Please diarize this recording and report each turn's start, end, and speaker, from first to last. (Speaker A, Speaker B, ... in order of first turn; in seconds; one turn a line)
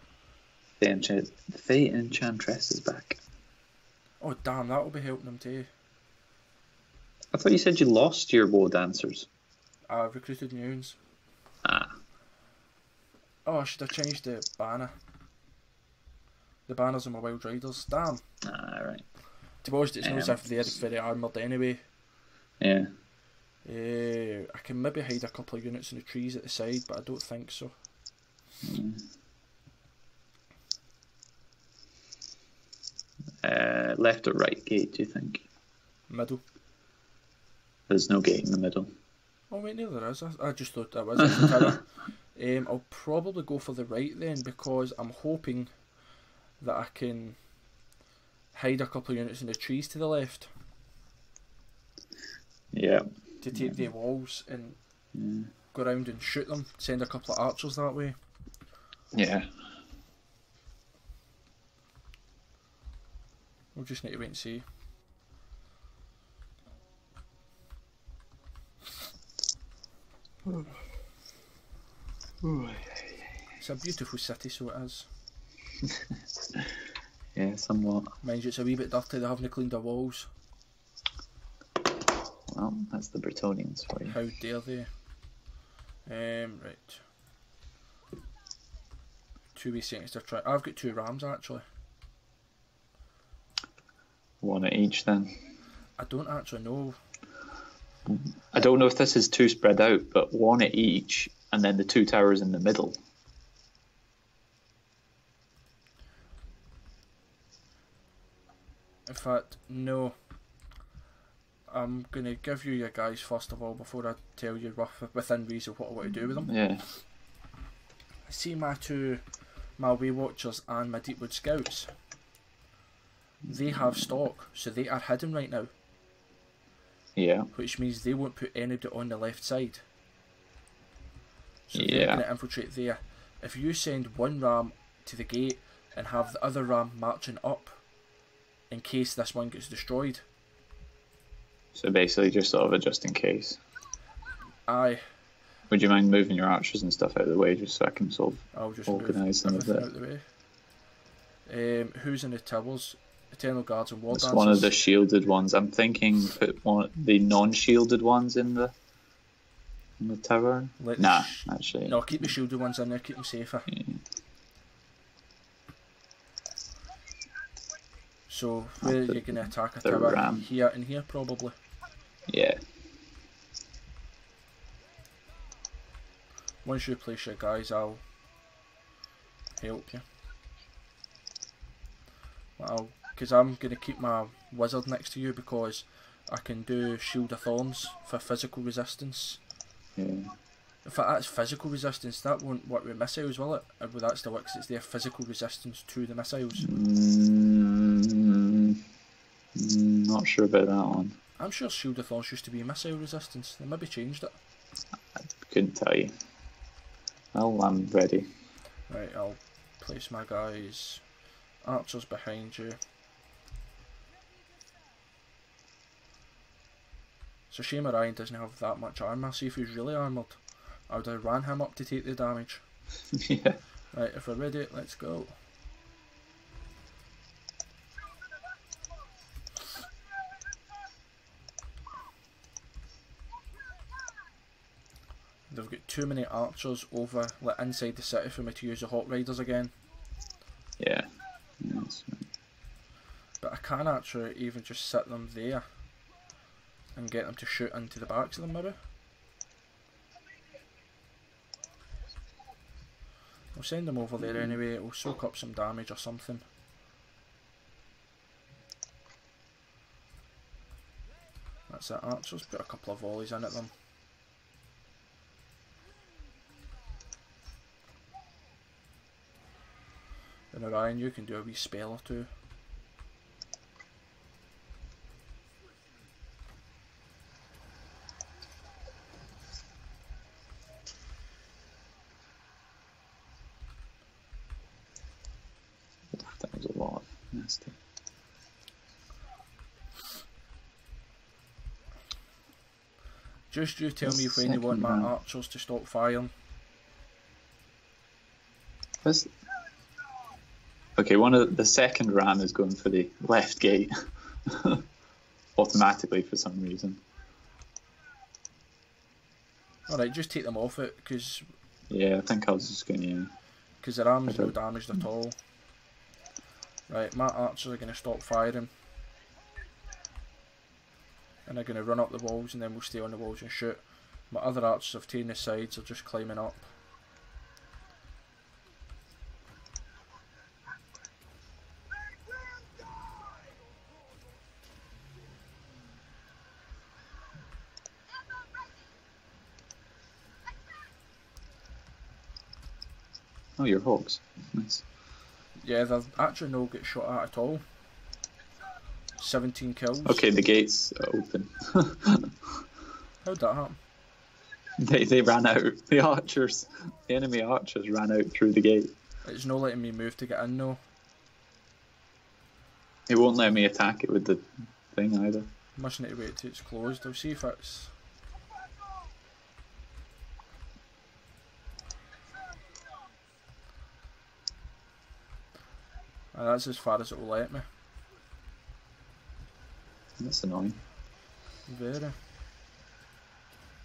Speaker A: 0.8-3.2
Speaker B: 4.2-5.7
Speaker A: 7.3-9.3
Speaker B: 9.9-11.0
Speaker A: 11.6-11.9
Speaker B: 13.4-14.9
Speaker B: 16.7-18.2
Speaker A: 18.4-19.0
Speaker B: 19.6-21.8
Speaker A: 20.0-20.7
Speaker A: 22.6-22.9
Speaker B: 23.6-27.7
Speaker A: 28.6-29.0
Speaker A: 33.4-35.4
Speaker B: 36.1-36.4
Speaker A: 37.9-38.9
Speaker B: 39.5-45.7
Speaker B: 46.6-47.4
Speaker B: 48.5-50.5
Speaker A: 52.7-53.8
Speaker B: 53.4-54.8
Speaker A: 55.1-55.5
Speaker B: 55.7-58.1
Speaker A: 59.1-59.5
Speaker B: 63.7-64.6
Speaker A: 72.5-72.8
Speaker B: 73.6-75.1
Speaker A: 77.3-78.1
Speaker B: 78.2-80.3
Speaker A: 82.5-84.2
Speaker B: 84.0-84.9
Speaker B: 86.0-87.0
Speaker B: 89.5-91.6
Speaker A: 94.4-95.3
Speaker B: 96.0-97.0
Speaker A: 98.1-102.9
Speaker B: 109.1-110.1
Speaker B: 111.7-116.5
Speaker A: 116.5-116.8
Speaker B: 118.3-119.2
Speaker B: 119.8-121.9
Speaker A: 123.5-124.0
Speaker B: 123.5-125.7
Speaker A: 127.2-127.5
Speaker B: 127.5-129.8
Speaker B: 131.7-137.8
Speaker A: 131.7-132.2
Speaker B: 138.7-140.2
Speaker A: 141.7-143.6
Speaker B: 144.7-145.0
Speaker A: 145.7-149.8
Speaker B: 148.5-150.2
Speaker B: 151.4-154.7
Speaker A: 154.1-158.7
Speaker A: 160.0-162.3
Speaker B: 160.8-163.7
Speaker A: 163.7-164.0
Speaker B: 168.3-171.5
Speaker A: 168.8-170.4
Speaker A: 172.3-172.6
Speaker B: 176.6-178.0
Speaker B: 179.6-180.0
Speaker B: 182.6-189.4
Speaker A: 190.0-190.3
Speaker B: 190.8-196.7
Speaker A: 196.6-198.8
Speaker A: 199.5-201.2
Speaker B: 201.4-204.4
Speaker A: 205.2-206.1
Speaker A: 207.3-208.3
Speaker B: 208.9-211.0
Speaker B: 211.6-212.8
Speaker B: 217.5-222.6
Speaker A: 223.1-223.6
Speaker B: 223.9-225.3
Speaker B: 235.5-239.7
Speaker A: 240.8-241.1
Speaker A: 241.6-242.3
Speaker B: 243.4-245.6
Speaker B: 246.9-248.8
Speaker B: 253.5-256.4
Speaker A: 254.2-254.6
Speaker B: 261.7-263.7
Speaker B: 270.5-272.3
Speaker A: 286.1-287.8
Speaker B: 293.5-296.3
Speaker A: 294.0-295.1
Speaker A: 299.0-299.3
Speaker A: 301.0-303.9
Speaker A: 304.4-304.8
Speaker A: 305.6-307.0
Speaker B: 309.9-311.4
Speaker A: 311.9-313.3
Speaker B: 313.8-315.4
Speaker A: 314.3-314.5
Speaker B: 316.9-318.7
Speaker B: 321.4-326.7
Speaker A: 343.6-344.8
Speaker B: 345.6-347.6
Speaker B: 349.2-350.3
Speaker A: 350.1-352.6
Speaker B: 353.2-353.8
Speaker A: 354.8-358.9
Speaker B: 359.2-360.8
Speaker A: 363.1-365.5
Speaker B: 365.8-367.9
Speaker B: 376.3-377.6
Speaker A: 380.2-380.8
Speaker B: 381.7-382.1